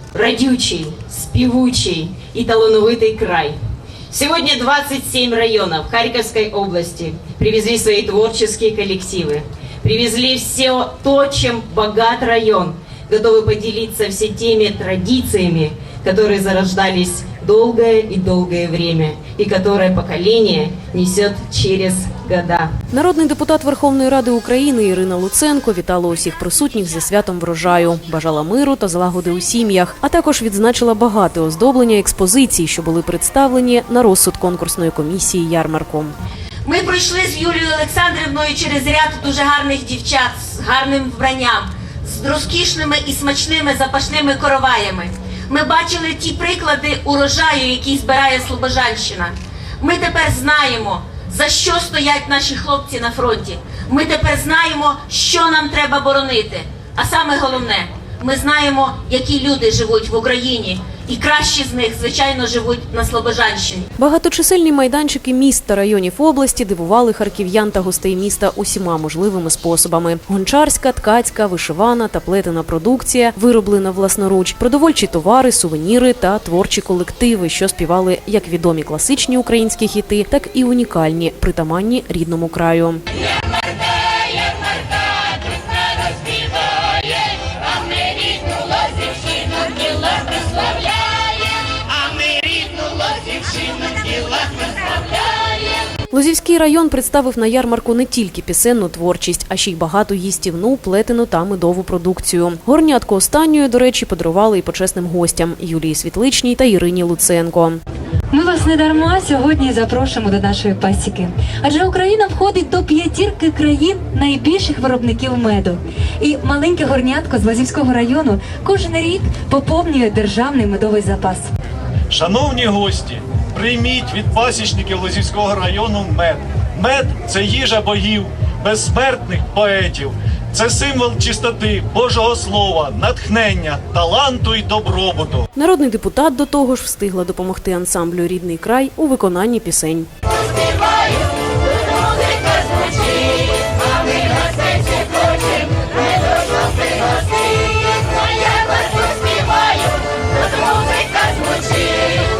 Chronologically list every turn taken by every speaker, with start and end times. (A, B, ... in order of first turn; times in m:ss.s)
0:00.1-0:03.6 A
0:04.1-0:22.7 A
0:22.9-0:36.1 B
0:36.6-1:03.9 C
1:04.0-1:23.0 B
1:36.1-1:47.8 B
1:48.3-2:01.4 D
2:02.1-2:15.5 E
2:15.6-2:20.1 B